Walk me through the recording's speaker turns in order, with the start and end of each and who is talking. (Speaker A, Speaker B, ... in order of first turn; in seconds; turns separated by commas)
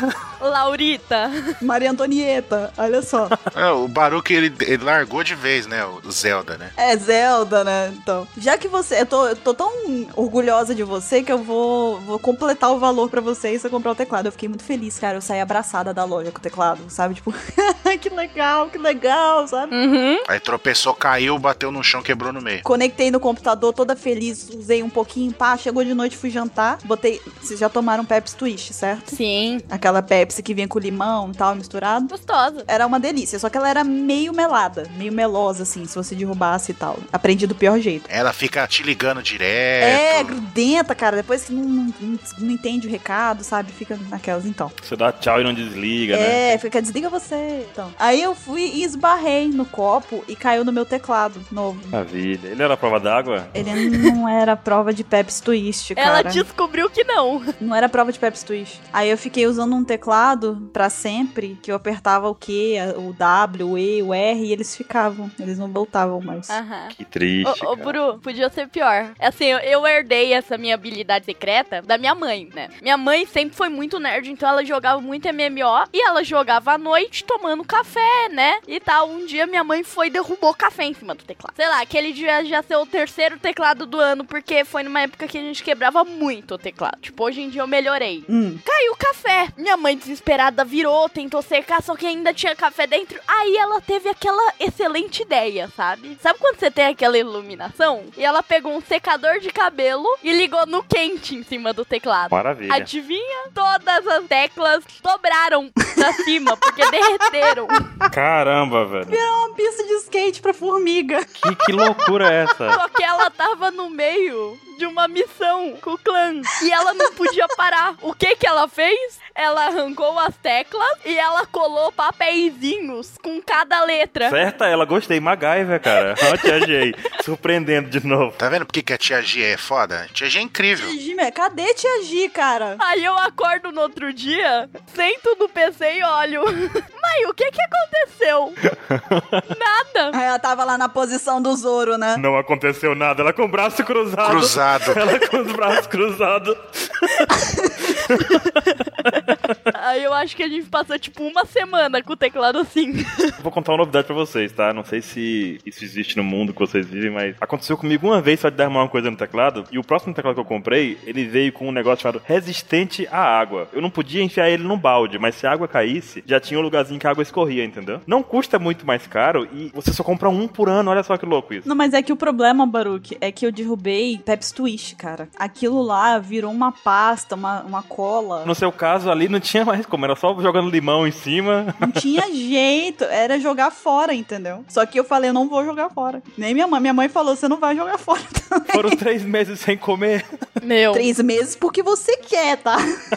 Speaker A: 0.4-1.6, Speaker B: 1.6-3.4, Speaker C: 3.5-6.7, Speaker B: 6.8-19.7, Speaker A: 19.7-20.2, Speaker C: 20.3-22.6, Speaker B: 22.6-29.2, Speaker A: 29.1-29.6, Speaker B: 29.7-32.1, Speaker A: 32.1-32.7, Speaker B: 32.7-38.1, Speaker C: 38.1-40.4, Speaker B: 39.8-44.7, Speaker D: 44.8-46.6, Speaker B: 46.1-51.9, Speaker D: 51.9-53.5, Speaker B: 53.5-56.5, Speaker A: 56.0-57.5, Speaker B: 57.6-66.6, Speaker A: 66.5-107.8, Speaker D: 66.9-68.0, Speaker B: 88.3-88.6, Speaker D: 102.3-102.9, Speaker B: 107.4-108.0, Speaker D: 108.1-109.2, Speaker B: 109.1-112.1, Speaker D: 111.4-112.8, Speaker A: 112.7-124.4, Speaker D: 124.3-128.4, Speaker A: 126.2-126.5, Speaker C: 128.4-130.9, Speaker B: 130.8-132.8, Speaker A: 132.8-138.6, Speaker D: 138.7-139.4, Speaker A: 139.5-140.2, Speaker B: 140.1-142.2, Speaker D: 142.2-147.3, Speaker C: 144.2-145.0, Speaker B: 147.4-147.9, Speaker D: 147.9-149.3, Speaker A: 149.7-153.3, Speaker D: 153.4-171.7, Speaker B: 171.7-178.5, Speaker D: 178.4-182.0, Speaker B: 181.8-189.0, Speaker D: 188.7-190.3, Speaker A: 190.6-191.1, Speaker B: 190.9-192.8